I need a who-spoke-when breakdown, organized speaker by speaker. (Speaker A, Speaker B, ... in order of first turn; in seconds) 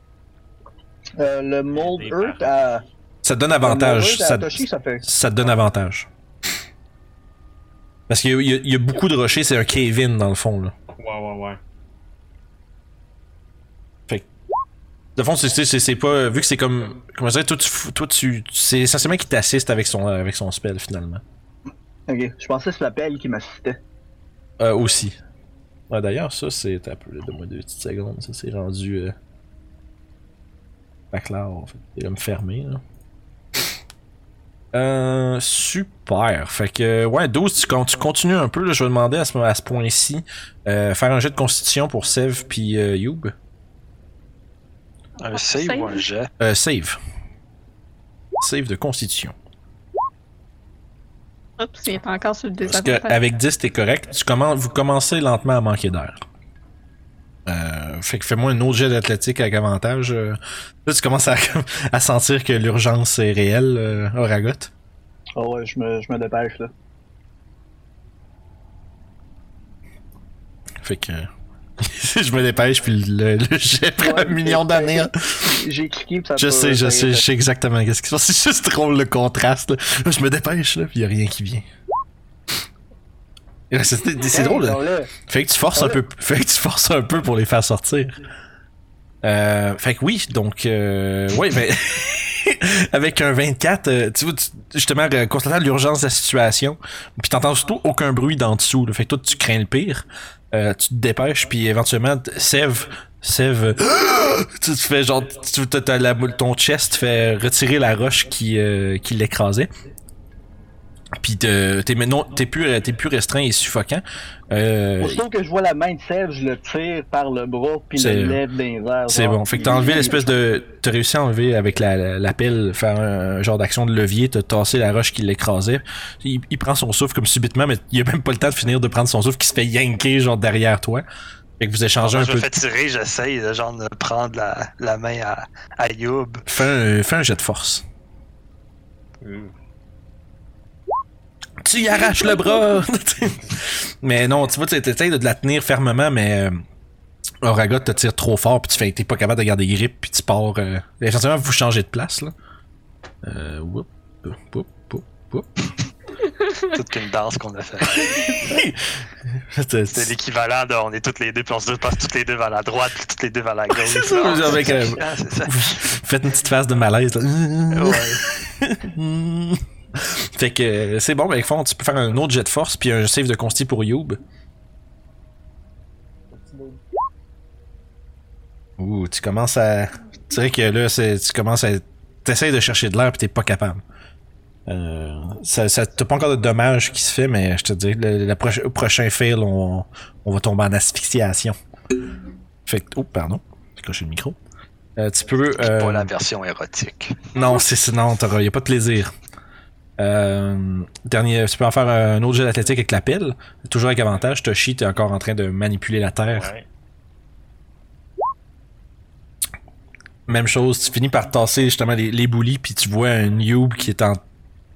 Speaker A: 1.2-2.8, 3.6-5.0, 22.1-23.8, 65.4-66.7, 74.0-77.2, 84.3-85.1, 85.7-86.0, 115.0-120.4
Speaker B: 1.7-2.7, 11.0-11.6, 139.2-139.5, 206.3-206.7
Speaker C: 3.2-6.1, 8.1-10.7, 15.2-21.2, 24.6-25.2, 25.9-29.1, 31.1-32.8, 34.7-43.3, 46.4-47.0, 48.4-49.4, 52.6-56.2, 57.5-64.7, 70.8-75.6, 76.4-81.7, 83.7-88.2, 89.2-109.7, 111.2-115.2, 118.0-118.4, 119.1-131.1, 131.6-132.5, 136.5-137.8, 141.6-146.6, 147.4-152.3, 153.2-155.5, 157.9-160.1, 163.7-174.2, 178.8-183.8, 184.7-191.6, 192.7-194.4, 195.0-196.1, 197.3-199.1, 200.0-206.5, 210.3-214.2
Speaker D: 45.2-46.3, 132.0-136.4, 156.6-158.4, 159.9-166.0, 167.7-168.3, 195.6-197.2
Speaker E: 45.3-46.1, 51.6-53.2, 156.3-156.8